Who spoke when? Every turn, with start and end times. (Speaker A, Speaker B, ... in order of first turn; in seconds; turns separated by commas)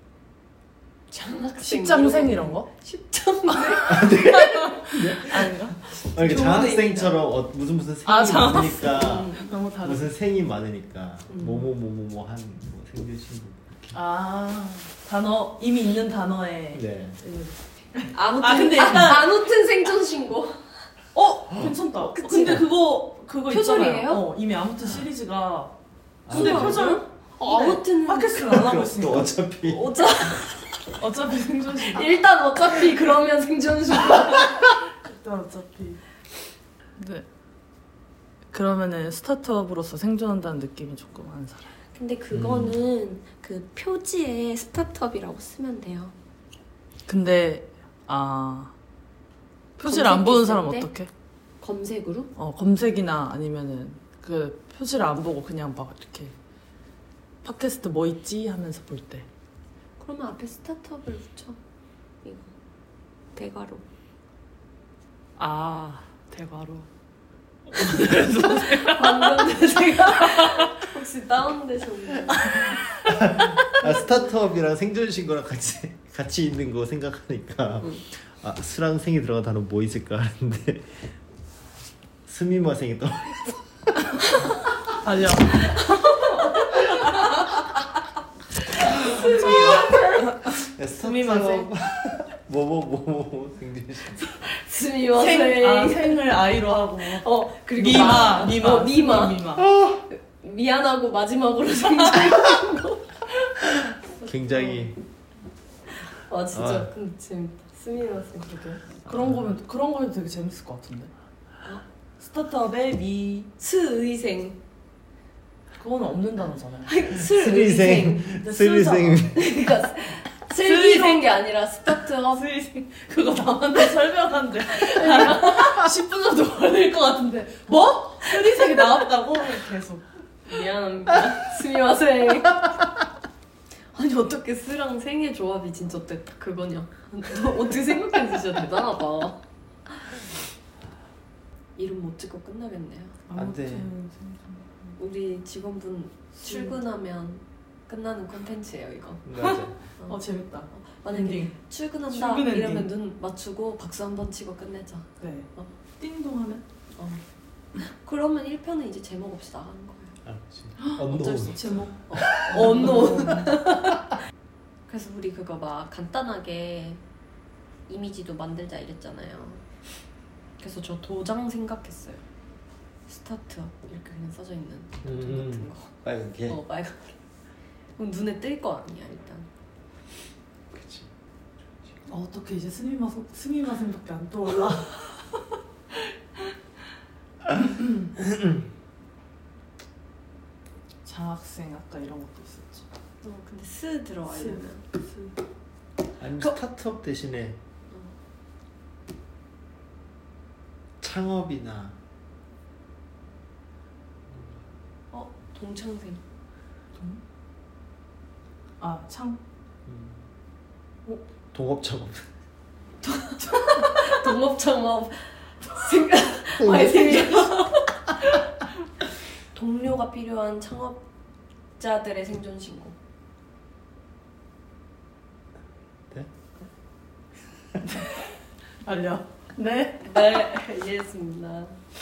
Speaker A: 1.1-4.4, Speaker B: 1.6-2.7, Speaker B: 3.5-5.8, Speaker C: 3.9-14.0, Speaker A: 5.9-7.2, Speaker B: 8.0-10.1, Speaker A: 8.8-9.5, Speaker A: 11.3-11.7, Speaker B: 13.9-19.3, Speaker C: 16.7-17.2, Speaker A: 18.1-20.9, Speaker B: 21.1-25.7, Speaker A: 22.0-22.7, Speaker A: 23.5-24.2, Speaker C: 26.2-26.9, Speaker B: 26.3-29.3, Speaker A: 26.3-28.9, Speaker C: 28.4-29.8, Speaker A: 29.6-31.0, Speaker B: 31.0-32.1, Speaker A: 31.7-34.7, Speaker B: 34.8-36.0, Speaker B: 37.0-37.2, Speaker B: 38.5-41.7, Speaker A: 41.9-46.1, Speaker C: 42.3-42.7, Speaker B: 47.1-48.7, Speaker B: 49.8-51.1, Speaker A: 49.8-50.9, Speaker A: 51.6-52.3, Speaker B: 52.4-56.3, Speaker B: 57.4-59.2, Speaker A: 60.0-61.6, Speaker A: 62.2-62.5, Speaker A: 63.3-63.8, Speaker B: 65.4-66.9, Speaker B: 67.7-70.7, Speaker A: 68.5-72.8, Speaker B: 72.4-73.7, Speaker C: 73.1-81.1, Speaker A: 73.8-74.2, Speaker C: 82.3-83.9, Speaker B: 85.0-86.0, Speaker A: 85.5-87.7, Speaker A: 88.6-90.2, Speaker B: 88.8-91.7, Speaker C: 90.7-94.3, Speaker A: 94.3-96.2, Speaker B: 95.1-99.7, Speaker A: 97.0-103.1, Speaker C: 99.6-100.0, Speaker A: 104.1-104.9, Speaker C: 104.2-105.0, Speaker A: 105.9-108.5, Speaker C: 106.5-106.9, Speaker B: 108.4-111.1, Speaker B: 112.2-113.5, Speaker A: 113.6-114.6, Speaker B: 115.8-116.9, Speaker A: 116.8-118.3, Speaker C: 117.2-119.4, Speaker B: 118.4-119.3, Speaker A: 119.3-123.0, Speaker B: 120.6-121.2, Speaker B: 123.0-130.1, Speaker A: 124.7-125.9, Speaker A: 130.4-132.9, Speaker A: 133.9-140.2, Speaker A: 141.8-143.2, Speaker B: 143.3-144.9, Speaker C: 143.3-143.9, Speaker A: 145.0-149.2, Speaker B: 146.4-146.8, Speaker C: 149.2-149.8, Speaker B: 149.4-152.9, Speaker A: 150.0-155.7, Speaker B: 155.2-156.6, Speaker A: 156.9-157.2, Speaker A: 157.7-160.2, Speaker C: 160.2-163.5, Speaker B: 160.8-163.5, Speaker A: 161.1-164.0, Speaker A: 164.9-167.0, Speaker A: 167.9-169.7, Speaker A: 170.6-172.2, Speaker A: 173.1-177.2, Speaker C: 175.0-176.6, Speaker A: 177.9-179.5, Speaker C: 180.7-181.1, Speaker B: 182.1-185.6, Speaker B: 187.7-188.0, Speaker B: 191.0-192.9, Speaker A: 193.2-194.8, Speaker B: 194.3-195.4, Speaker C: 196.2-197.6, Speaker A: 197.9-198.2, Speaker C: 201.0-202.0, Speaker A: 205.1-206.2, Speaker B: 206.9-207.2, Speaker B: 208.8-209.4, Speaker C: 209.9-210.2, Speaker C: 211.5-212.3, Speaker A: 213.0-218.4, Speaker C: 216.6-217.3, Speaker A: 219.5-221.0, Speaker A: 221.8-222.9, Speaker B: 227.8-230.2, Speaker A: 230.0-231.8